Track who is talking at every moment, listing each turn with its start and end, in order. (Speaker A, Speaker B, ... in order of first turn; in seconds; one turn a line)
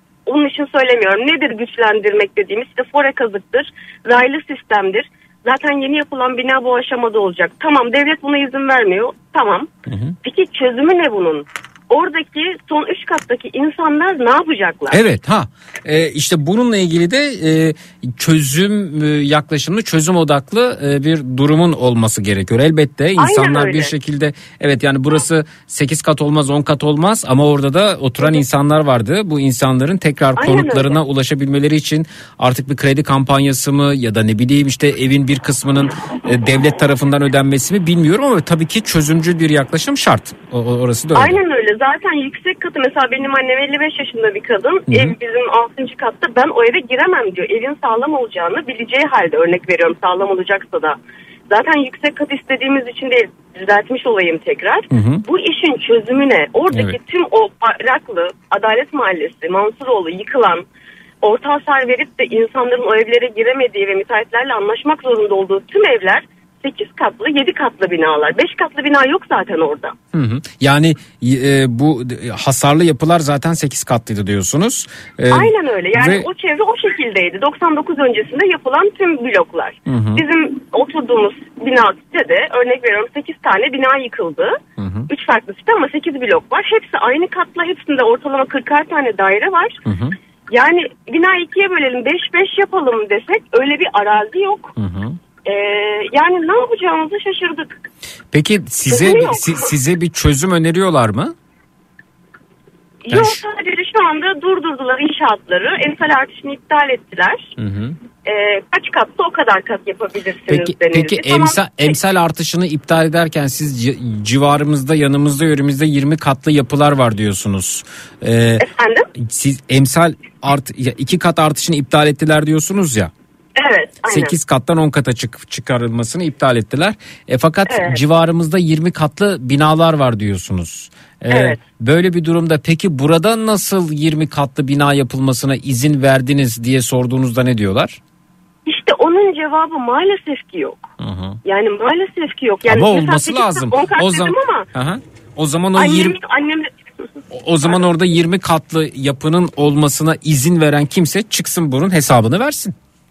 Speaker A: 0.3-9.7
Speaker B: 9.9-10.2
Speaker A: 10.2-15.0
Speaker B: 14.9-41.4
Speaker A: 23.2-23.9
Speaker A: 30.4-31.0
Speaker A: 41.1-51.0
Speaker B: 44.9-45.2
Speaker A: 51.5-60.7
Speaker B: 54.9-55.2
Speaker B: 56.7-57.0
Speaker A: 61.2-70.0
Speaker B: 70.1-76.3
Speaker A: 75.3-84.6
Speaker B: 79.9-80.2
Speaker B: 84.8-85.1
Speaker A: 85.1-89.8
Speaker B: 89.8-90.2
Speaker A: 90.5-94.7
Speaker B: 94.8-95.2
Speaker A: 95.5-97.9
Speaker B: 98.3-101.3
Speaker A: 98.9-99.7
Speaker A: 103.1-107.5
Speaker B: 103.1-103.4
Speaker B: 107.6-108.0
Speaker A: 108.2-112.0
Speaker B: 110.5-123.1
Speaker A: 118.6-119.1
Speaker A: 123.6-124.3
Speaker B: 124.1-138.0
Speaker A: 127.7-128.0
Speaker A: 131.3-131.6
Speaker A: 138.7-140.9
Speaker B: 141.0-141.4
Speaker A: 141.4-144.7
Speaker B: 142.7-146.2
Speaker A: 145.8-146.7
Speaker B: 147.3-152.8